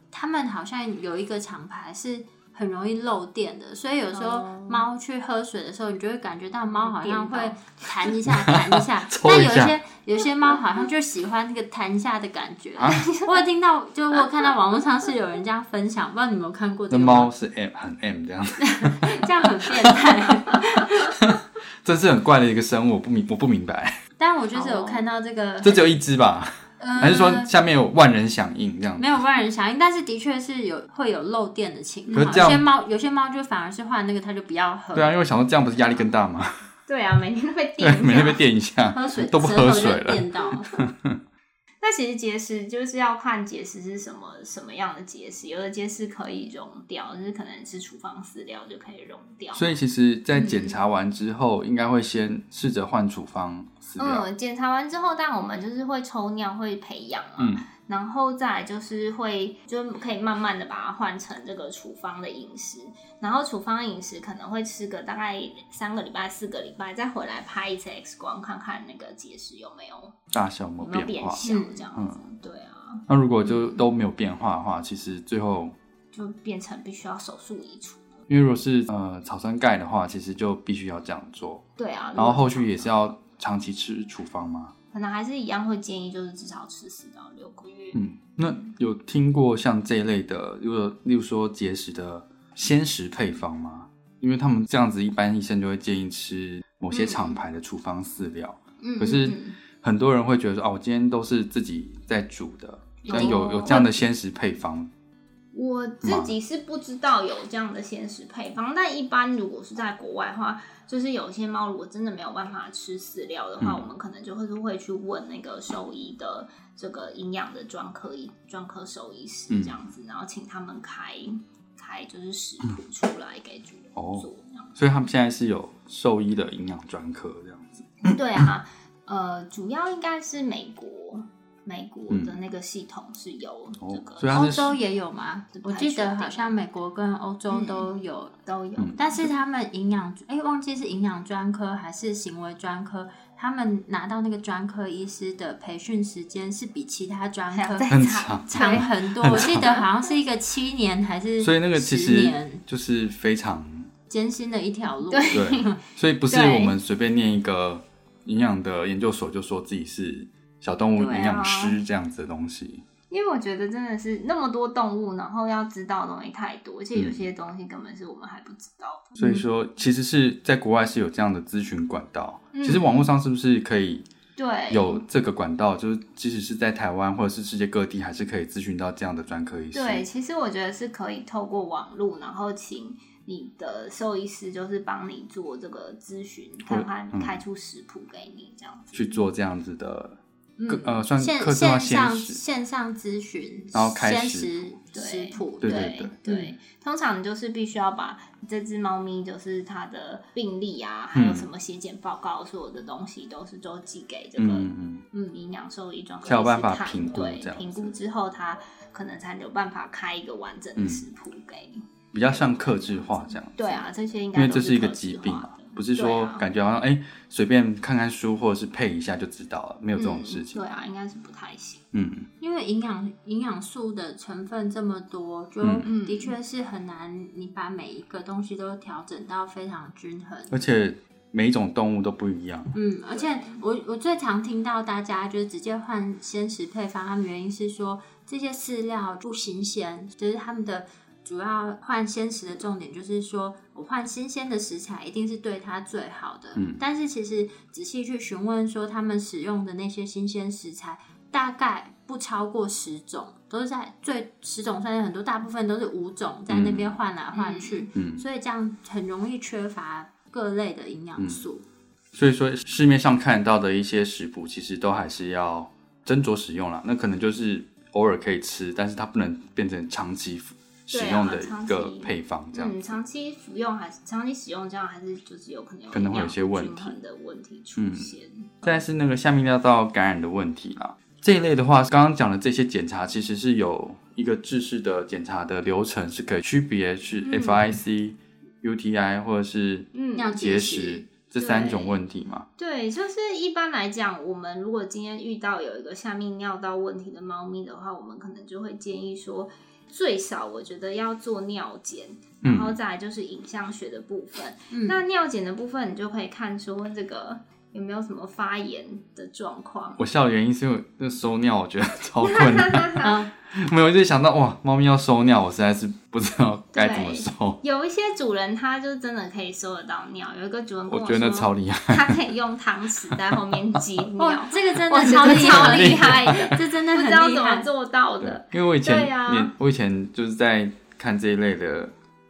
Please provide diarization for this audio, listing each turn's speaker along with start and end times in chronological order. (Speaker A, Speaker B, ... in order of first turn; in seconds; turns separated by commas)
Speaker A: 0.1-17.3, Speaker B: 4.1-4.9, Speaker B: 6.8-7.6, Speaker C: 8.2-9.8, Speaker B: 12.8-13.4, Speaker C: 16.9-19.2, Speaker A: 18.6-21.1, Speaker C: 21.2-24.0, Speaker A: 24.2-25.8, Speaker B: 24.5-25.1, Speaker C: 25.6-29.1, Speaker A: 26.8-27.5, Speaker A: 29.0-35.1, Speaker B: 32.1-32.4, Speaker C: 32.1-32.7, Speaker C: 35.0-36.6, Speaker B: 36.9-38.4, Speaker C: 37.8-41.2, Speaker A: 38.9-40.7, Speaker B: 41.8-49.7, Speaker C: 49.5-54.3, Speaker B: 50.3-50.8, Speaker B: 54.0-70.2, Speaker C: 57.4-57.7, Speaker C: 70.3-72.2, Speaker B: 70.8-73.8, Speaker A: 71.4-71.8, Speaker C: 73.1-75.7, Speaker B: 76.1-78.2, Speaker C: 78.3-81.6, Speaker B: 81.8-83.1, Speaker C: 82.2-84.7, Speaker B: 84.9-88.5, Speaker C: 88.0-104.9, Speaker B: 96.9-97.4, Speaker B: 98.8-99.6, Speaker B: 103.0-103.9, Speaker B: 105.5-124.8, Speaker C: 106.0-106.3, Speaker C: 113.6-113.9, Speaker C: 119.5-119.8, Speaker C: 124.0-128.2, Speaker B: 128.0-134.8, Speaker C: 132.1-132.3, Speaker C: 133.8-134.8, Speaker A: 134.3-138.3, Speaker B: 135.6-136.6, Speaker B: 137.5-137.9, Speaker B: 138.5-139.3, Speaker A: 139.0-147.9, Speaker B: 147.5-149.9, Speaker C: 147.9-149.7, Speaker A: 148.5-152.6, Speaker C: 151.4-153.9, Speaker A: 154.1-155.8, Speaker B: 155.1-155.7, Speaker C: 155.3-162.8, Speaker B: 156.3-156.8, Speaker B: 161.0-161.8, Speaker B: 163.1-169.4, Speaker C: 167.0-167.2, Speaker C: 169.2-174.1, Speaker B: 172.5-173.1, Speaker B: 174.4-175.0, Speaker C: 174.7-180.1, Speaker B: 179.7-189.2, Speaker C: 186.7-187.4, Speaker C: 188.9-192.4, Speaker B: 190.6-191.0, Speaker A: 191.2-196.5, Speaker C: 193.7-194.5, Speaker B: 194.9-216.4, Speaker C: 195.6-196.1, Speaker C: 201.1-201.5, Speaker C: 204.4-205.0, Speaker C: 206.2-207.9, Speaker C: 210.8-211.0, Speaker C: 212.1-220.6, Speaker B: 219.9-221.8, Speaker C: 221.9-222.3, Speaker A: 222.4-230.6, Speaker C: 225.6-225.9, Speaker B: 225.8-226.3, Speaker C: 230.5-232.8, Speaker A: 232.8-261.6, Speaker B: 233.1-233.6, Speaker C: 246.6-246.8, Speaker C: 256.5-256.9, Speaker B: 257.3-257.9, Speaker C: 257.9-258.2, Speaker C: 262.1-272.8, Speaker B: 270.9-278.6, Speaker C: 275.9-277.0, Speaker C: 277.8-278.1, Speaker C: 278.6-292.5, Speaker B: 287.2-287.6, Speaker B: 289.9-290.4, Speaker A: 290.2-291.1, Speaker B: 291.4-292.0, Speaker B: 292.6-310.0, Speaker C: 302.4-302.8, Speaker A: 304.7-305.0, Speaker C: 310.0-317.6, Speaker B: 312.2-313.2, Speaker A: 313.0-313.3, Speaker B: 316.7-329.5, Speaker C: 320.9-322.2, Speaker A: 324.2-327.7, Speaker C: 325.2-326.6, Speaker C: 328.2-331.9